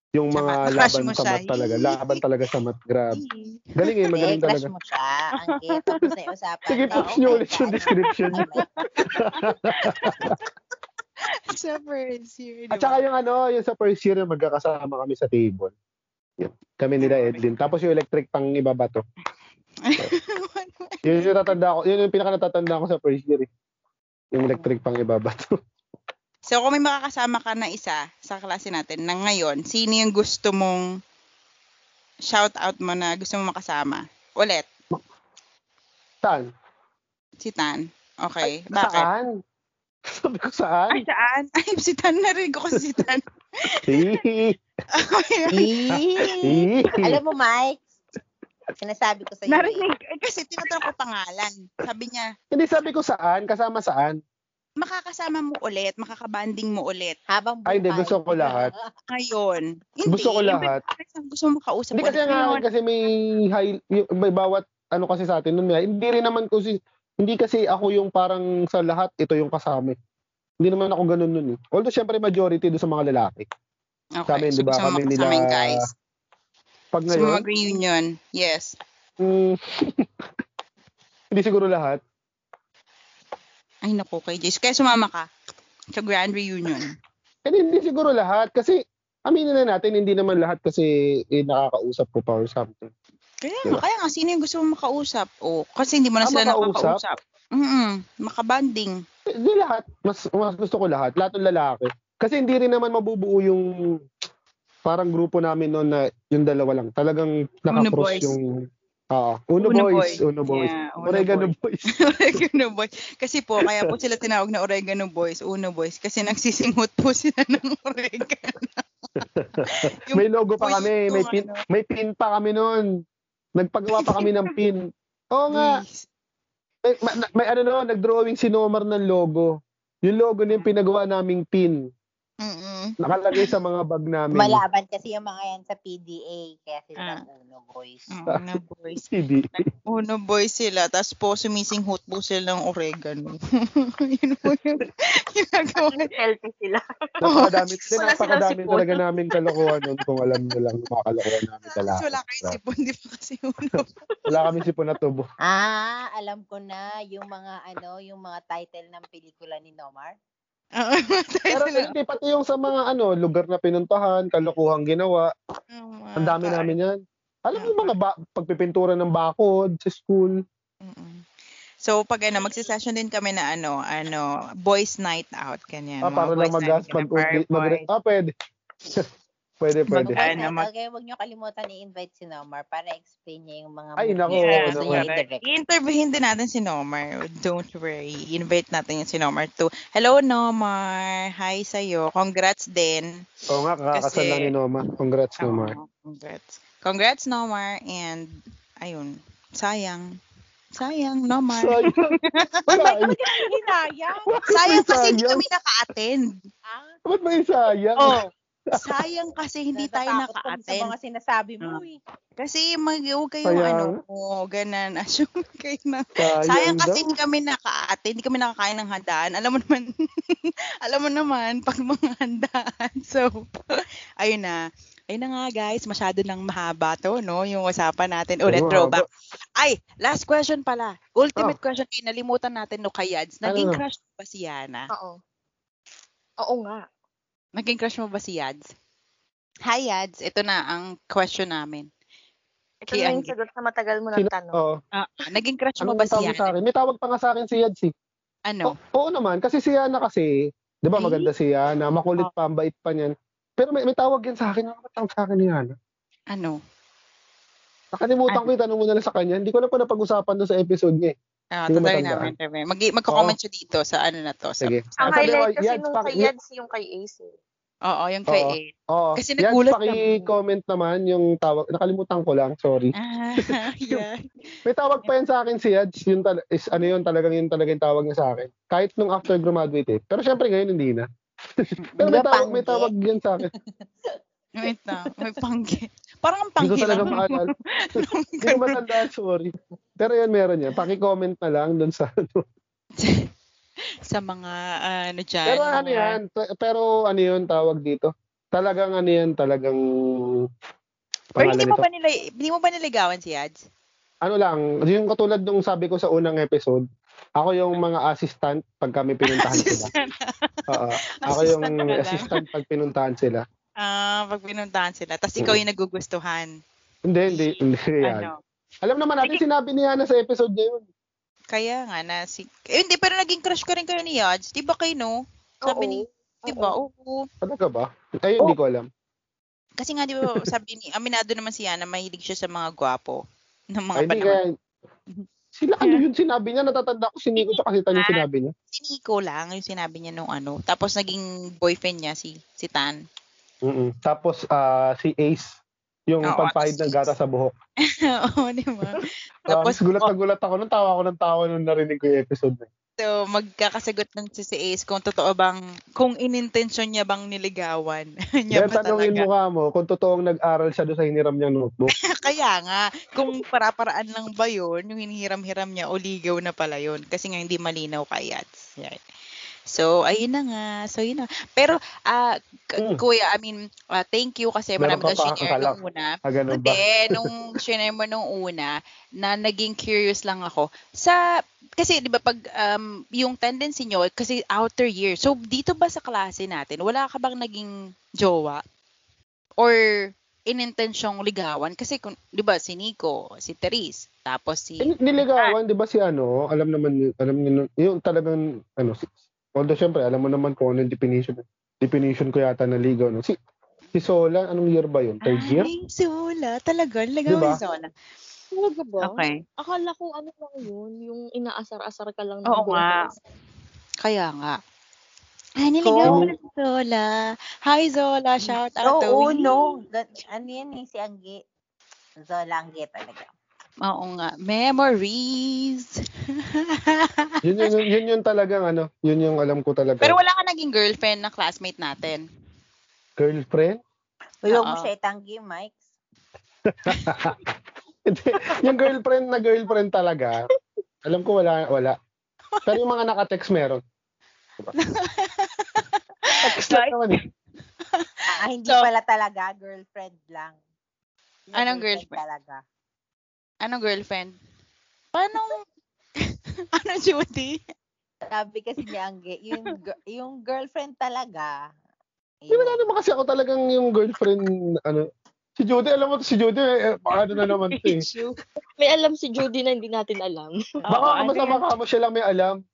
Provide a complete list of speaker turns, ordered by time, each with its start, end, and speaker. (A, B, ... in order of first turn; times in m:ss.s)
0:00.2-0:03.2 A
0:00.4-0:02.2 B
0:03.1-0:04.1 B
0:03.8-0:04.7 A
0:04.1-0:08.7 C
0:05.8-0:06.0 B
0:06.7-0:08.4 A
0:06.9-0:07.4 B
0:08.4-0:10.4 B
0:09.0-0:10.4 A
0:11.5-0:13.0 B
0:12.7-0:15.7 A
0:16.4-0:19.0 A
0:17.0-0:17.4 B
0:19.8-0:21.6 B
0:21.0-0:23.5 A
0:24.3-0:25.5 A
0:26.5-0:30.8 B
0:32.3-0:34.7 B
0:37.4-0:39.1 B
0:38.4-0:39.3 A
0:40.1-0:41.0 A
0:40.9-0:44.2 B
0:43.9-0:44.6 A
0:44.9-0:46.8 B
0:45.5-0:47.8 C
0:46.4-0:47.2 A
0:48.8-0:49.8 C
0:49.5-0:52.3 B
0:52.5-0:54.2 A
0:54.8-0:57.2 B
0:57.3-0:58.9 C
0:57.7-0:58.7 A
0:59.1-1:02.6 B
1:00.1-1:00.8 A
1:01.9-1:10.0 A
1:10.6-1:13.5 A
1:14.2-1:15.9 B
1:14.3-1:15.8 A
1:16.9-1:17.4 A
1:17.1-1:18.7 B
1:19.2-1:20.1 A
1:21.3-1:22.0 A
1:23.8-1:25.3 B
1:25.9-1:26.9 B
1:27.4-1:32.9 A
1:33.4-1:39.0 B
1:36.2-1:37.0 A
1:39.3-1:43.7 A
1:44.9-1:48.4 A
1:47.7-1:48.3 B
1:49.1-1:51.9 A
1:49.6-1:58.8 B
1:59.4-2:02.8 A
1:59.6-2:01.6 B
2:03.6-2:04.8 A
2:04.0-2:04.3 B
2:05.3-2:05.8 A
2:05.5-2:06.1 B
2:06.8-2:09.5 A
2:10.0-2:11.8 A
2:12.4-2:13.5 B
2:13.0-2:14.6 A
2:14.3-2:18.1 C
2:18.1-2:26.1 B
2:19.0-2:19.7 A
2:25.9-2:26.8 D
2:27.2-2:32.6 A
2:27.2-2:28.0 B
2:27.9-2:29.0 D
2:31.8-2:33.9 B
2:34.3-2:35.2 A
2:35.4-2:40.1 C
2:40.8-2:41.9 B
2:41.5-2:45.3 A
2:45.7-2:46.7 B
2:46.2-2:46.9 A
2:47.4-2:50.4 A
2:47.6-2:47.9 B
2:50.8-2:51.2 B
2:51.8-2:57.8 B
2:56.0-2:58.3 A
2:59.6-3:00.3 A
2:59.9-3:00.7 B
3:00.1-3:05.4 C
3:04.0-3:05.0 A
3:04.3-3:13.1 B
3:13.5-3:15.7 A
3:13.9-3:14.5 B
3:15.4-3:18.3 B
3:18.8-3:20.0 B
3:20.8-3:22.5 B
3:21.6-3:22.1 A
3:22.7-3:23.2 A
3:22.7-3:24.5 C
3:24.3-3:25.4 A
3:24.5-3:26.3 B
3:26.6-3:27.0 C
3:27.0-3:28.2 A
3:28.7-3:30.9 B
3:29.7-3:32.0 C
3:32.4-3:40.3 B
3:33.4-3:34.0 A
3:36.2-3:37.0 A
3:40.8-3:44.6 B
3:45.1-3:49.0 B
3:48.5-3:49.0 A
3:49.6-3:54.9 B
3:53.4-3:53.8 A
3:54.9-3:55.2 D
3:56.4-3:56.8 D
3:57.6-3:58.7 B
3:59.7-4:01.9 B
4:02.9-4:04.6 D
4:02.9-4:03.3 B
4:04.2-4:04.8 A
4:05.0-4:06.5 B
4:05.8-4:07.9 A
4:08.5-4:08.7 B
4:08.6-4:10.3 A
4:10.8-4:15.7 A
4:11.0-4:11.3 B
4:16.3-4:16.6 B
4:17.9-4:21.1 A
4:21.6-4:25.4 B
4:21.7-4:22.3 A
4:23.1-4:23.4 A
4:24.6-4:26.3 A
4:25.0-4:27.3 D
4:27.8-4:30.3 B
4:28.3-4:34.0 A
4:33.0-4:34.2 B
4:34.6-4:41.0 A
4:41.6-4:43.5 A
4:41.8-4:42.1 B
4:42.0-4:42.9 C
4:43.4-4:43.8 C
4:44.6-4:48.8 B
4:46.6-4:52.4 A
4:53.0-4:53.3 B
4:54.1-4:56.2 B
4:55.5-4:59.8 A
5:01.4-5:01.8 A
5:01.4-5:03.6 B
5:04.2-5:06.8 A
5:07.4-5:09.9 A
5:09.3-5:10.3 B
5:10.7-5:13.4 A
5:11.2-5:12.4 B
5:13.8-5:16.5 B
5:17.1-5:18.3 A
5:17.3-5:18.4 B
5:18.8-5:20.8 A
5:21.5-5:27.3 B
5:25.6-5:26.7 D
5:27.4-5:28.8 A
5:29.8-5:33.2 B
5:33.7-5:34.4 B
5:34.0-5:34.5 A
5:35.6-5:38.5 A
5:37.4-5:43.0 B
5:43.6-5:45.6 A
5:46.1-5:47.5 A
5:46.3-5:47.1 B
5:47.9-5:50.1 B
5:49.5-5:52.7 A
5:53.0-5:59.2 B
5:58.5-6:01.9 A
6:02.2-6:09.0 B
6:09.7-6:21.2 B
6:14.8-6:17.3 A
6:21.8-6:27.7 B
6:28.2-6:28.6 B
6:30.5-6:35.5 B
6:34.8-6:43.3 A
6:43.9-6:45.7 A
6:45.2-6:47.9 B
6:47.3-6:47.6 A
6:48.5-6:53.0 D
6:49.0-6:49.4 B
6:52.5-6:53.1 B
6:54.0-6:54.6 B
6:55.6-6:57.1 B
6:55.8-6:56.2 C
6:56.0-6:56.3 A
6:57.6-6:59.4 B
6:58.8-7:01.4 C
7:02.2-7:03.3 C
7:03.8-7:05.9 B
7:07.4-7:10.1 A
7:10.0-7:12.2 B
7:13.2-7:13.8 A
7:14.4-7:15.8 C
7:14.5-7:14.9 B
7:16.7-7:17.4 A
7:16.9-7:17.2 B
7:18.1-7:20.5 A
7:21.0-7:21.9 A
7:22.6-7:23.8 A
7:24.8-7:27.0 B
7:26.4-7:27.2 A
7:28.3-7:30.6 C
7:31.5-7:32.6 C
7:31.5-7:32.2 B
7:33.6-7:34.3 B
7:35.1-7:35.6 B
7:36.8-7:37.6 B
7:38.3-7:41.7 C
7:42.4-7:42.8 C
7:42.5-7:45.1 A
7:45.6-7:48.0 A
7:47.7-7:48.3 B
7:48.8-7:50.6 D
7:50.9-7:51.6 B
7:50.9-7:52.6 A